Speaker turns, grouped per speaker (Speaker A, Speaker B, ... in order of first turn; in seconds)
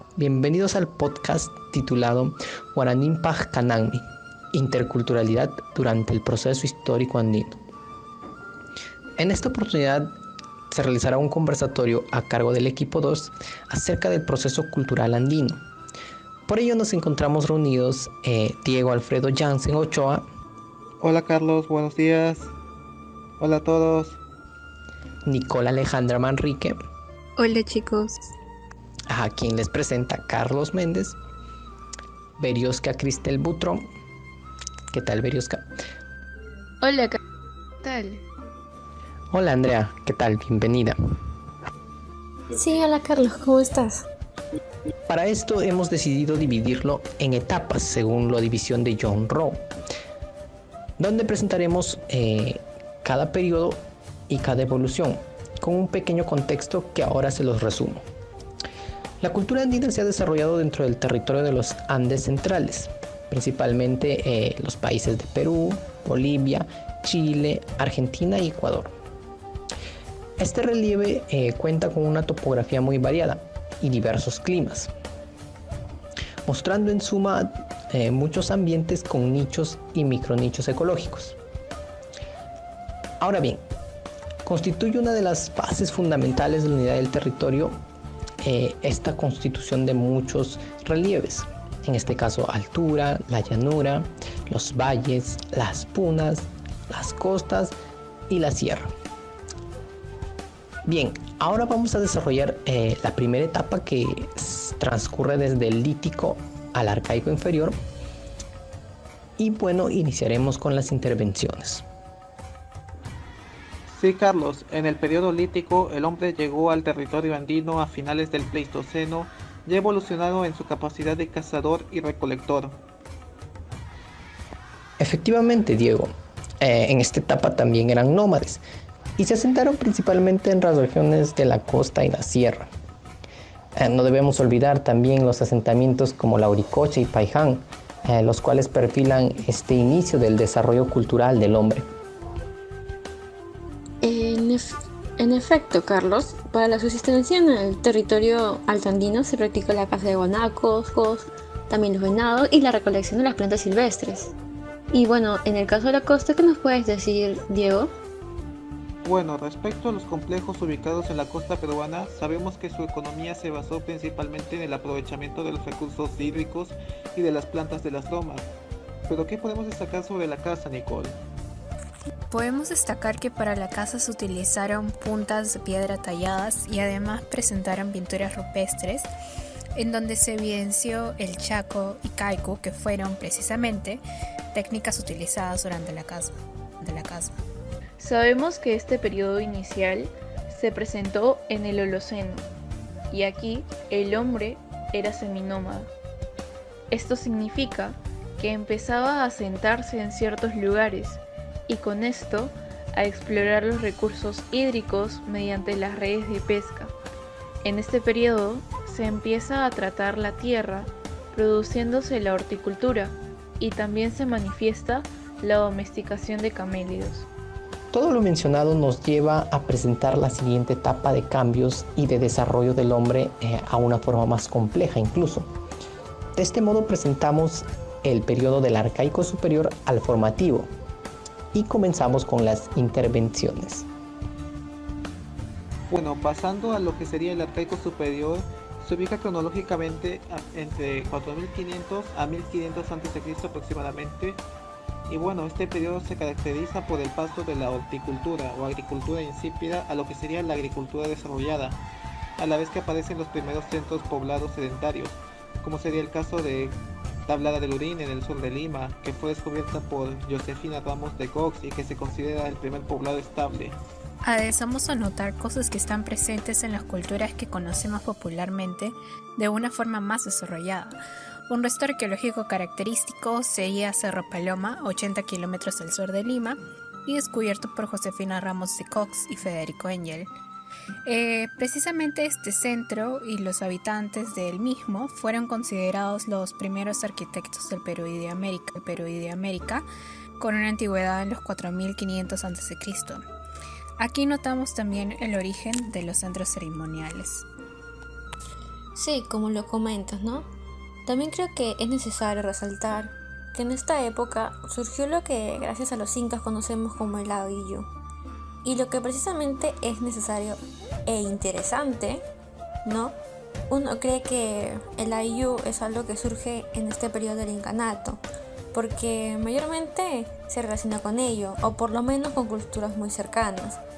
Speaker A: 0.2-7.6, 9.2-10.2, 10.7-15.6, 16.5-20.3, 25.3-26.8, 29.1-31.2, 32.4-33.9, 34.9-35.6, 39.3-41.0, 45.1-49.7, 51.0-58.0, 59.2-68.9, 70.4-74.9, 76.5-81.4, 83.2-83.6, 84.5-87.8, 88.4-97.8, 98.3-98.9, 100.9-107.8, 109.4-111.8, 125.0-128.6, 129.2-132.7, 133.8-141.9, 217.9-225.5, 226.4-230.7, 231.5-233.9
Speaker B: 21.0-22.5, 23.4-24.2, 113.9-122.8, 159.0-168.5, 169.1-171.2, 235.9-244.4, 245.1-251.8, 252.4-263.8
Speaker C: 27.4-28.3, 36.8-37.2, 37.8-38.2, 188.0-192.5, 193.1-195.9, 196.9-206.9, 207.6-217.3
Speaker D: 42.5-44.1, 144.0-154.3, 154.9-157.9, 298.9-300.5, 301.1-307.9, 308.6-312.2, 312.9-313.2, 313.7-318.2, 318.7-323.8
Speaker E: 172.3-179.1, 179.8-184.0, 184.5-187.4, 264.2-280.3, 281.1-289.9, 290.4-293.2, 294.0-297.5